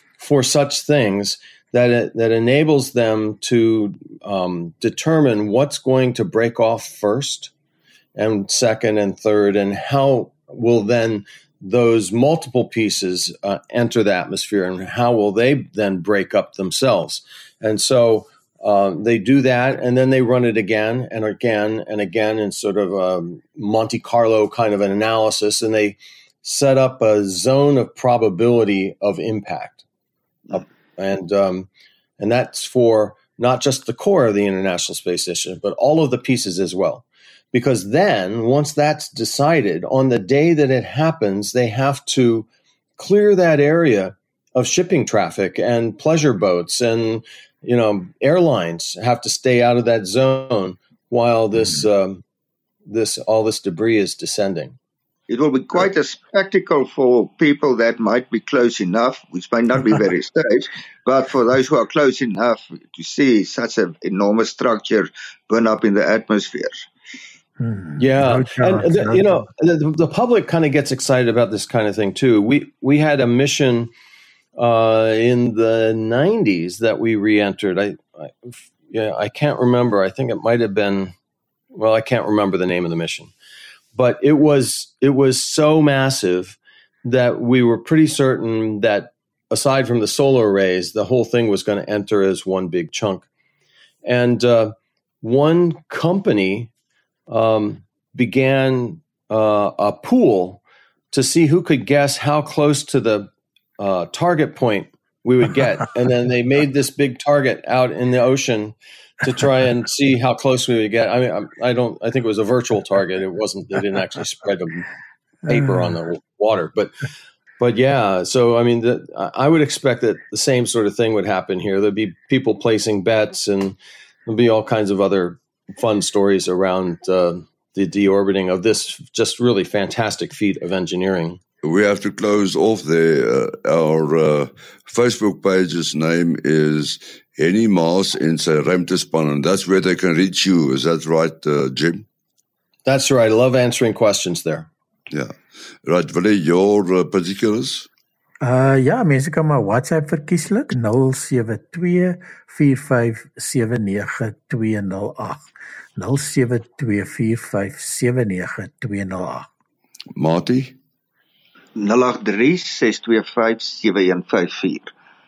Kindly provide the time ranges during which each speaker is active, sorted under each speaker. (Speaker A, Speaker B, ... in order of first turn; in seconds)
Speaker A: 0.2-7.5, 8.2-29.8, 30.5-52.2, 52.9-54.8, 68.0-73.9, 74.6-81.1, 81.7-83.3, 83.9-93.3, 94.0-96.7, 97.3-114.9, 115.5-116.9, 117.6-131.4, 142.8-144.7
Speaker B: 55.3-66.9, 161.8-164.9
Speaker C: 67.6-69.4, 148.4-159.5
Speaker D: 131.6-142.1, 145.1-147.9, 160.2-160.8